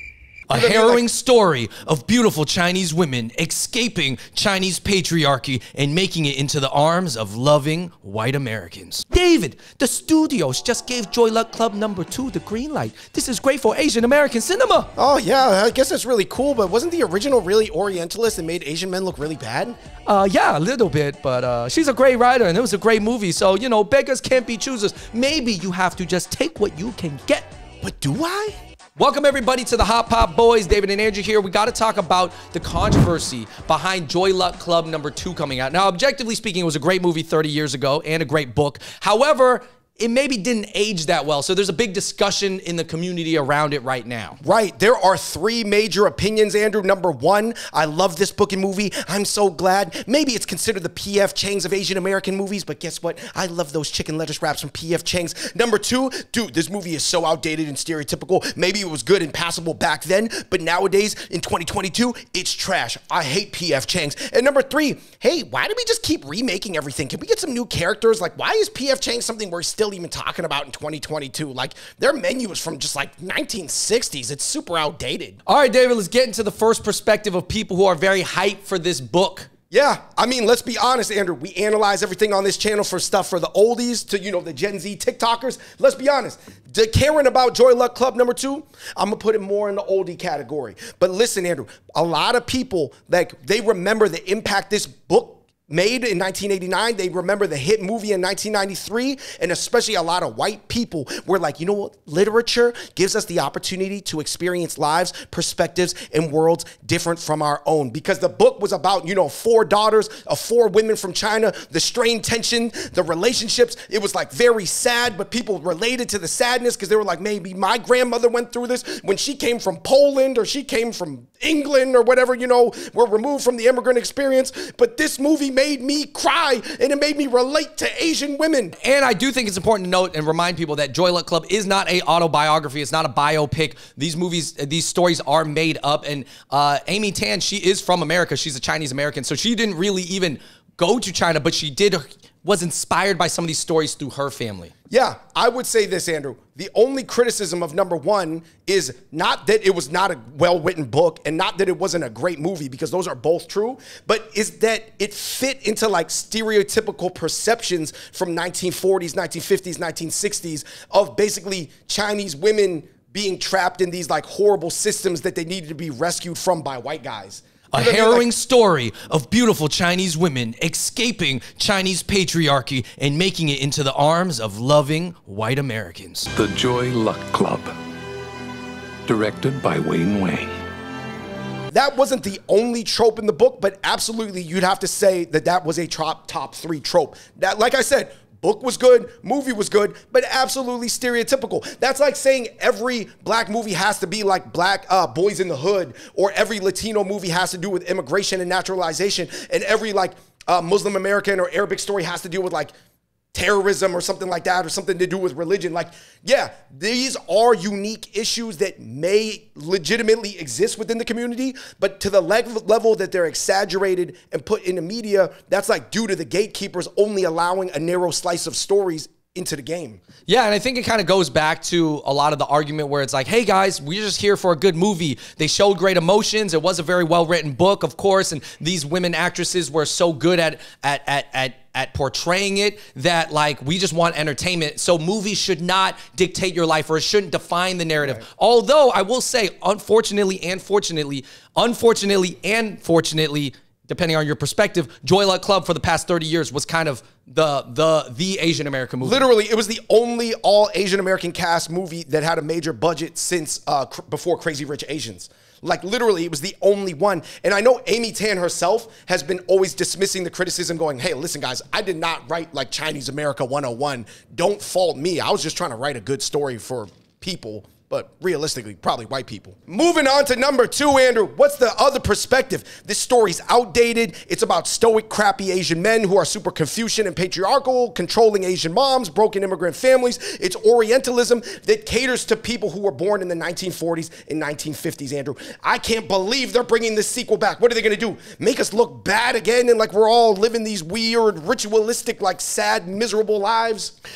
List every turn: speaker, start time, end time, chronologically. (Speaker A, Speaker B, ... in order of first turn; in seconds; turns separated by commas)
Speaker A: 0.5-14.9, Speaker B: 0.5-1.0, Speaker B: 14.9-19.8, Speaker A: 20.1-27.5, Speaker B: 27.8-28.6, Speaker A: 29.0-44.4, Speaker B: 44.4-75.4, Speaker A: 75.5-79.5, Speaker B: 79.7-128.8, Speaker A: 128.8-144.7, Speaker B: 144.9-168.3, Speaker A: 167.7-176.3, Speaker C: 176.3-177.8, Speaker C: 179.1-180.6, Speaker B: 181.7-202.7, Speaker B: 203.3-220.0, Speaker A: 220.3-249.2, Speaker B: 249.0-293.9